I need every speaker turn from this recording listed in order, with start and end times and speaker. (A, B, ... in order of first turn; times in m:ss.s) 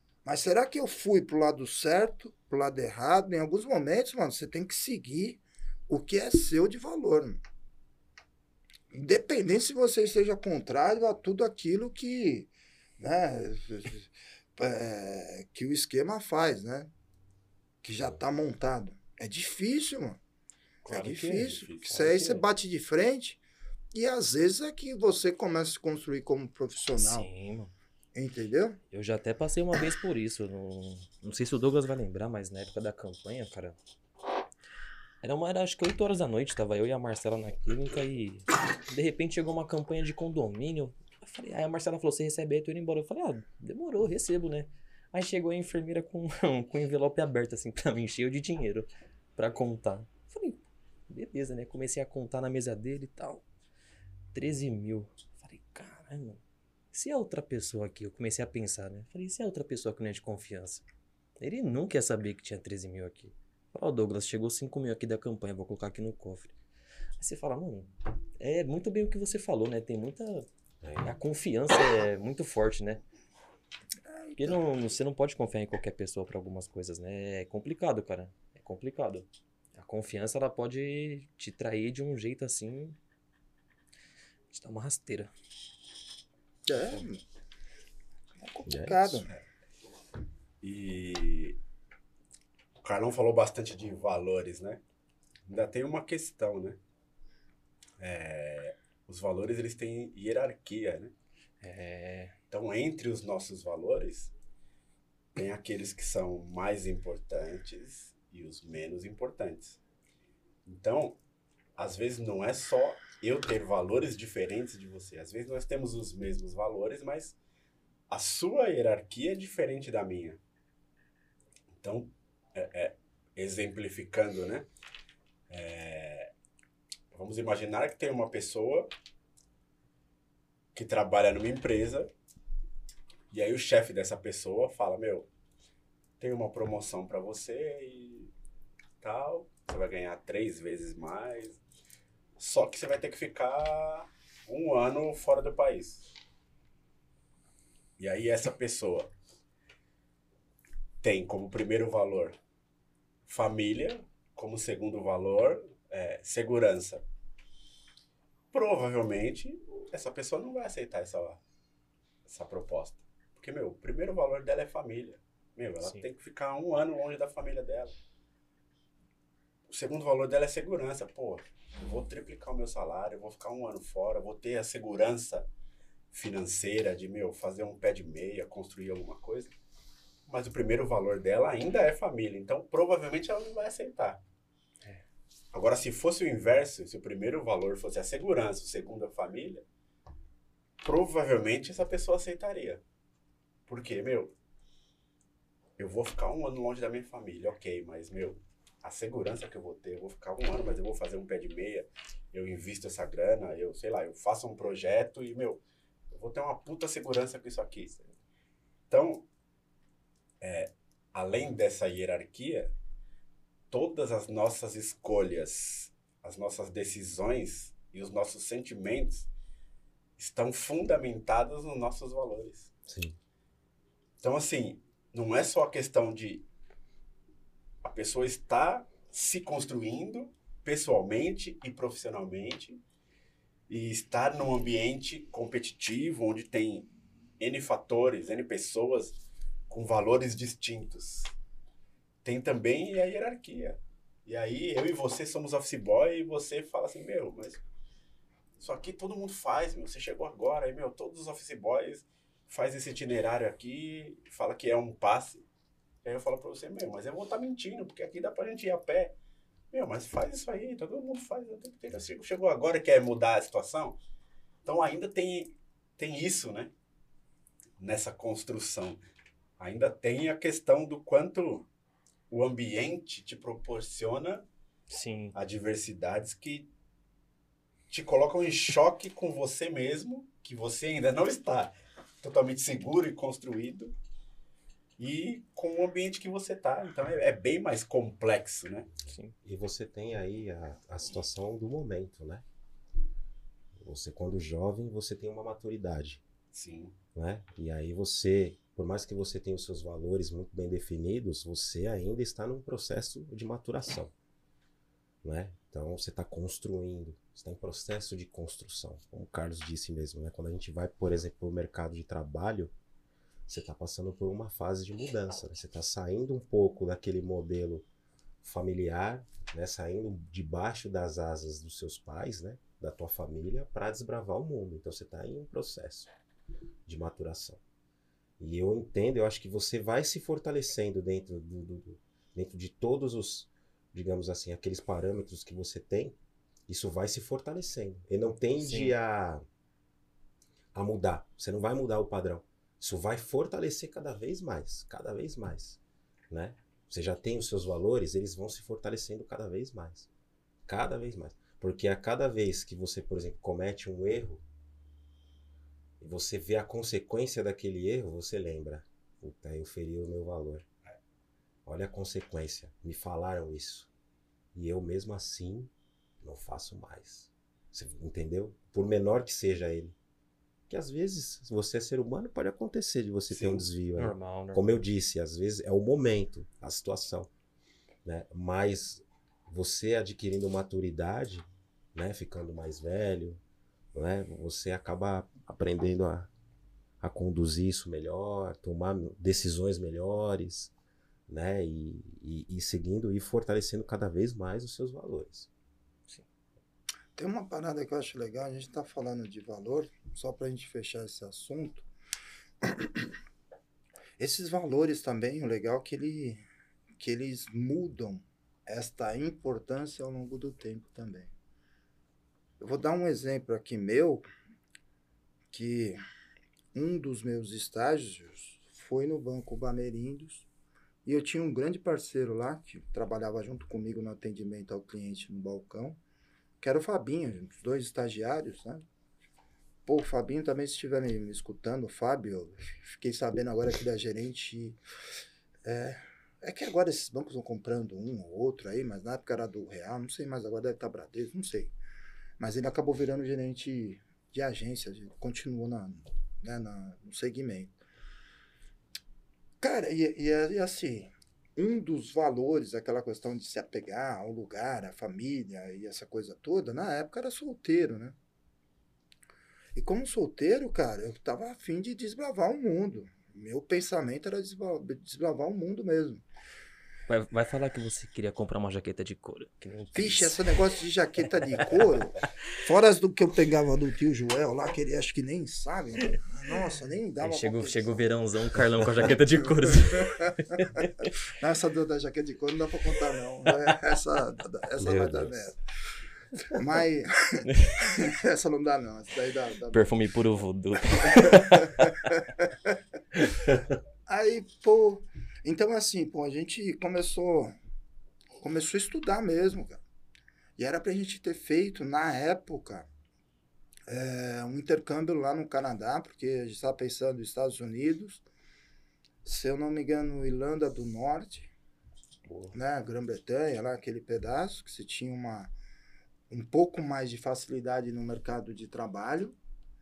0:00.2-0:07.4 A
0:08.9-0:16.9 A
0:17.8-0:20.2 A
0:20.8-0:22.4 B
0:20.9-0:23.4 A
0:21.4-0:22.2 C
0:23.9-0:27.3 A
0:27.0-0:27.7 B
0:28.1-0:28.8 A
0:28.9-0:33.8 B
0:35.2-0:53.4 B
0:54.3-0:56.4 B
0:56.9-1:00.8 B
1:01.4-1:06.5 B
1:07.2-1:10.4 B
1:10.8-1:11.1 D
1:11.0-1:13.0 B
1:14.1-1:14.6 A
1:14.4-1:23.0 B
1:24.5-1:25.3 B
1:26.6-1:27.2 A
1:28.4-1:29.3 A
1:28.6-1:29.2 D
1:30.6-1:31.6 C
1:32.8-1:34.8 C
1:35.5-1:36.8 C
1:38.0-1:41.1 C
1:41.6-1:42.3 B
1:42.5-1:44.3 C
1:45.4-1:49.8 C
1:50.6-1:51.2 C
1:51.8-1:57.4 C
1:58.1-2:00.4 C
2:01.8-2:04.7 C
2:05.5-2:06.3 C
2:07.1-2:08.9 C
2:10.7-2:12.1 C
2:13.3-2:15.3 C
2:16.2-2:18.3 C
2:19.0-2:21.6 C
2:22.4-2:26.1 C
2:28.0-2:29.1 C
2:31.0-2:32.4 C
2:33.3-2:37.0 C
2:38.5-2:41.4 C
2:42.2-2:48.0 C
2:49.7-2:55.5 C
2:56.1-2:59.5 C
3:00.3-3:04.2 C
3:05.5-3:09.6 C
3:10.8-3:12.8 C
3:13.7-3:14.3 C
3:15.8-3:27.9 C
3:28.9-3:29.2 C
3:30.4-3:32.7 C
3:33.7-3:39.3 C
3:40.2-3:42.7 C
3:42.9-3:43.2 D
3:44.2-3:46.5 C
3:47.8-3:52.8 C
3:53.7-4:01.3 C
4:02.2-4:07.6 C
4:08.6-4:15.4 C
4:16.0-4:19.1 C
4:19.7-4:24.0 C
4:24.6-4:26.7 C
4:27.8-4:29.0 C
4:29.6-4:31.7 C
4:32.3-4:34.4 C
4:34.9-4:35.3 B
4:35.3-4:36.7 C
4:37.9-4:43.9 C
4:45.0-4:48.9 C
4:49.1-4:49.3 B
4:49.4-4:52.4 D
4:53.8-4:56.2 D
4:56.5-4:57.0 C
4:57.1-5:04.1 D
5:05.2-5:12.7 D
5:13.5-5:17.8 D
5:18.4-5:26.1 D
5:26.8-5:27.6 D
5:28.4-5:36.2 D
5:36.7-5:39.4 D
5:38.6-5:38.9 B
5:40.7-5:45.8 D
5:46.3-5:50.1 D
5:50.7-5:54.4 D
5:56.0-6:00.6 D
6:01.6-6:03.9 D
6:04.5-6:05.7 D
6:06.2-6:09.9 D
6:10.7-6:17.3 D
6:13.3-6:13.6 C
6:14.0-6:14.7 B
6:18.0-6:23.4 D
6:23.9-6:26.3 D
6:27.0-6:30.7 D
6:31.3-6:35.5 D
6:37.2-6:41.8 A
6:42.6-6:43.1 A
6:44.2-6:46.4 A
6:47.0-6:51.3 A
6:52.6-6:54.2 A
6:55.5-6:56.0 A
6:56.7-7:00.4 A
7:01.0-7:06.0 A
7:06.6-7:08.8 A
7:09.8-7:14.8 A
7:15.6-7:21.7 A
7:22.4-7:27.8 A
7:29.6-7:38.2 A
7:39.8-7:46.2 A
7:47.1-7:50.6 B
7:49.9-7:58.0 A
7:51.5-7:52.2 B
7:57.2-8:01.1 B
7:59.0-8:05.6 A
8:04.8-8:05.3 D
8:06.4-8:09.9 A
8:09.7-8:11.9 B
8:11.0-8:12.7 A
8:13.2-8:13.6 B
8:14.1-8:17.5 A
8:18.4-8:19.8 A
8:20.6-8:22.9 A
8:23.9-8:28.2 A
8:29.2-8:31.5 A
8:32.2-8:32.5 B
8:32.5-8:35.5 A
8:36.3-8:39.4 A